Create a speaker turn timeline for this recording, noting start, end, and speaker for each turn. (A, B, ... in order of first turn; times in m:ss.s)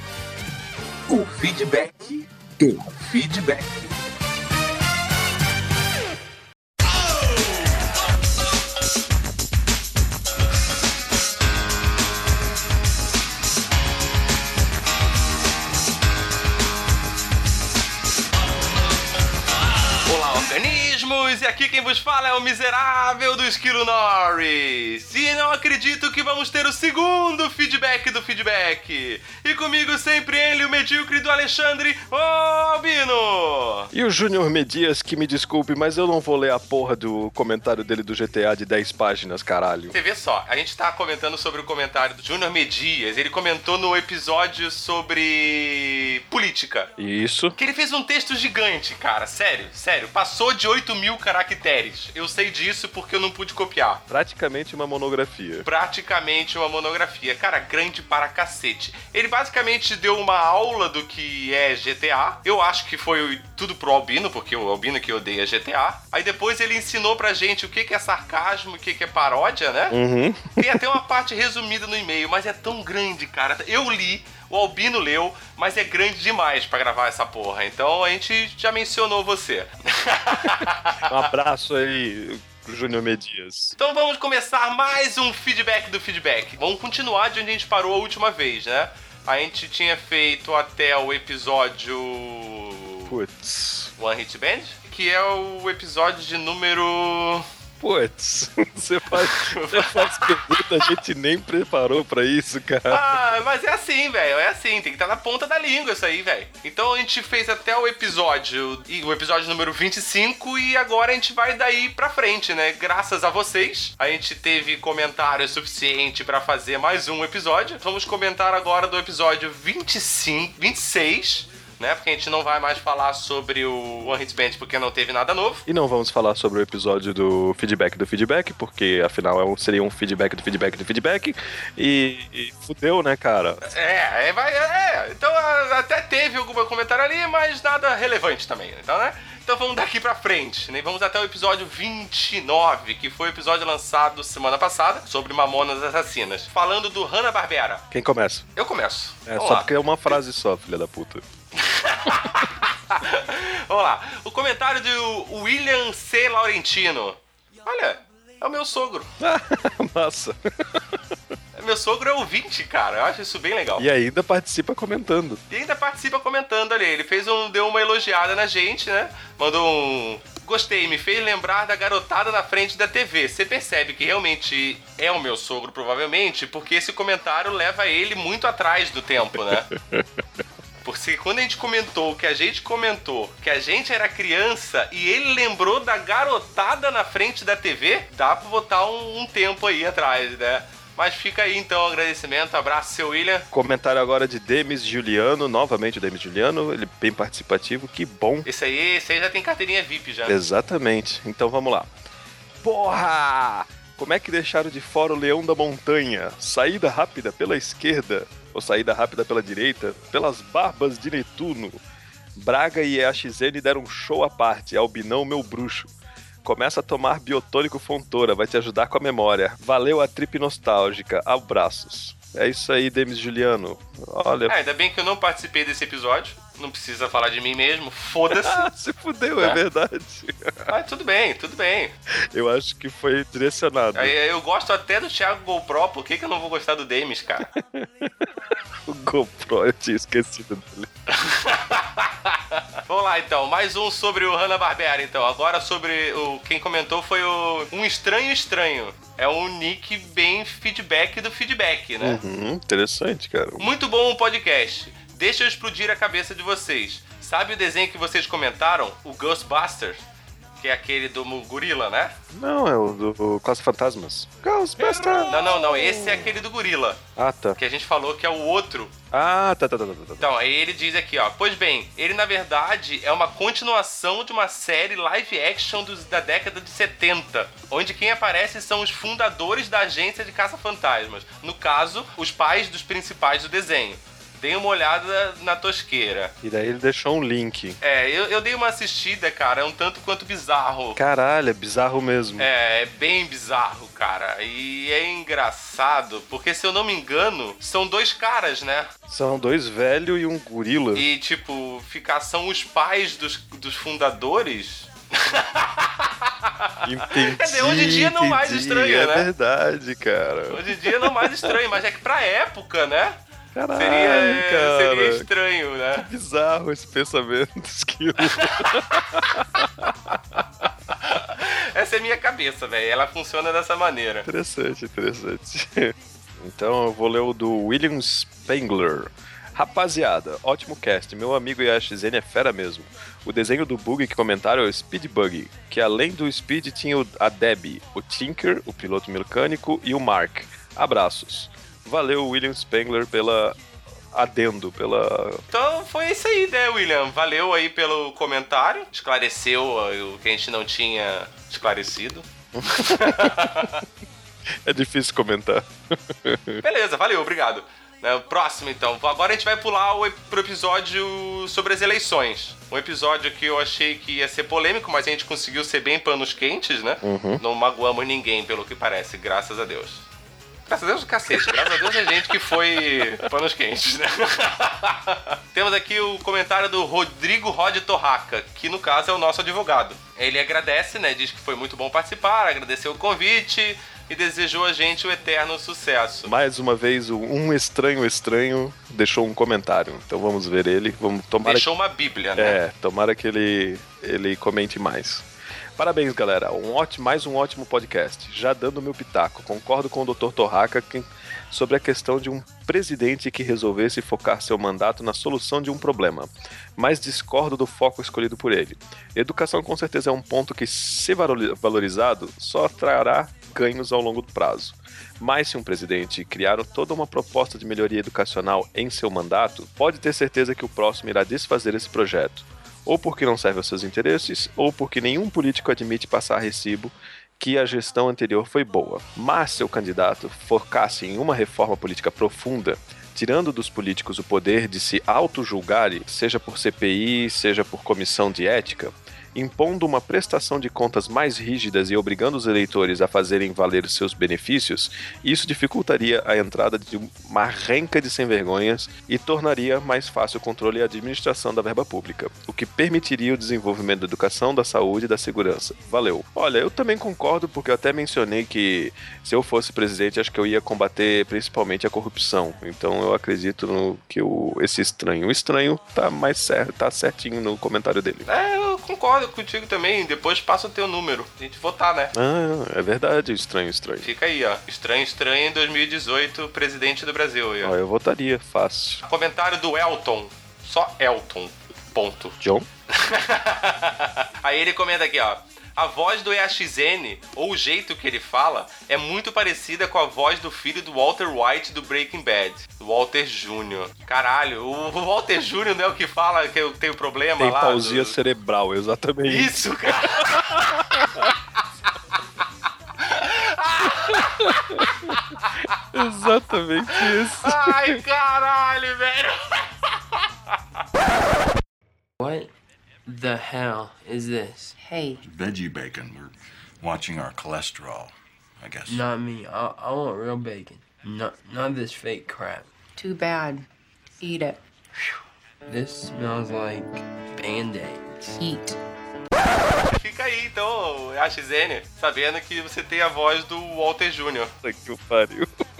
0:01.1-0:03.9 A
0:20.0-0:33.9 B
0:33.9-0:40.0 C
0:39.9-0:46.9 B
0:47.0-0:47.6 C
0:47.6-0:54.0 B
0:54.1-0:55.7 C
0:55.6-1:10.0 B
1:09.9-1:10.9 C
1:10.6-1:21.2 B
1:21.0-1:23.8 C
1:23.8-1:33.1 B
1:33.1-1:33.9 C
1:34.0-1:37.5 B
1:37.8-1:43.0 C
1:39.1-1:40.9 B
1:42.9-2:05.6 B
2:05.7-2:13.7 C
2:13.6-2:27.8 B
2:27.9-2:28.5 C
2:28.6-2:30.2 B
2:29.3-2:31.2 C
2:31.6-2:39.1 B
2:39.2-2:41.0 C
2:41.6-2:43.9 B
2:43.8-2:45.4 C
2:45.5-2:59.7 B
2:59.4-3:00.2 C
3:00.8-3:13.5 B
3:13.5-3:18.5 C
3:18.5-3:20.4 B
3:20.3-3:21.9 C
3:22.6-3:31.8 C
3:32.4-3:35.9 C
3:36.4-3:44.6 C
3:44.5-3:48.7 B
3:48.3-3:50.7 C
3:50.7-3:51.9 B
3:52.1-3:54.2 C
3:54.0-3:57.5 B
3:57.4-3:58.3 C
3:58.9-4:00.9 C
4:01.1-4:12.2 B
4:12.0-4:13.7 C
4:13.6-4:20.0 B
4:20.6-4:22.2 B
4:22.3-4:26.4 C
4:24.8-4:27.0 B
4:27.2-4:27.6 C
4:27.6-4:28.9 B
4:29.1-4:30.3 C
4:30.2-4:46.3 B
4:46.4-4:47.8 C
4:47.8-4:51.0 B
4:51.0-4:52.5 C
4:52.4-4:58.9 B
4:59.1-5:01.1 C
5:01.0-5:09.3 B
5:06.8-5:11.6 C
5:10.5-5:13.2 B
5:13.5-5:15.3 C
5:13.8-5:16.1 B
5:16.0-5:20.4 C
5:18.2-5:19.7 B
5:21.0-5:24.3 B
5:24.2-5:43.6 C
5:44.1-5:45.4 C
5:45.5-5:53.8 B
5:52.6-5:53.6 C
5:54.6-5:56.6 C
5:56.6-6:10.1 B
6:07.0-6:07.4 C
6:10.7-6:26.3 B
6:26.3-6:31.7 C
6:31.4-6:32.6 B
6:32.4-7:48.3 C
7:48.3-7:52.1 B
7:52.1-7:54.1 C
7:54.0-7:57.7 B
7:57.6-7:59.0 C
7:59.0-8:02.4 B
8:02.4-8:02.7 C
8:02.9-8:18.2 B
8:17.4-8:21.3 C
8:19.2-8:21.3 B
8:23.0-8:25.8 B
8:24.1-8:24.9 C
8:25.9-8:28.0 C
8:26.9-8:30.2 B
8:32.2-8:32.5 D
8:33.1-8:34.8 D
8:34.8-8:35.2 E
8:35.2-8:39.1 F
8:38.9-8:42.7 D
8:43.0-8:43.7 E
8:44.2-8:44.6 E
8:45.7-8:48.4 D
8:48.4-8:48.8 E
8:49.9-8:54.5 B
8:54.6-8:55.5 C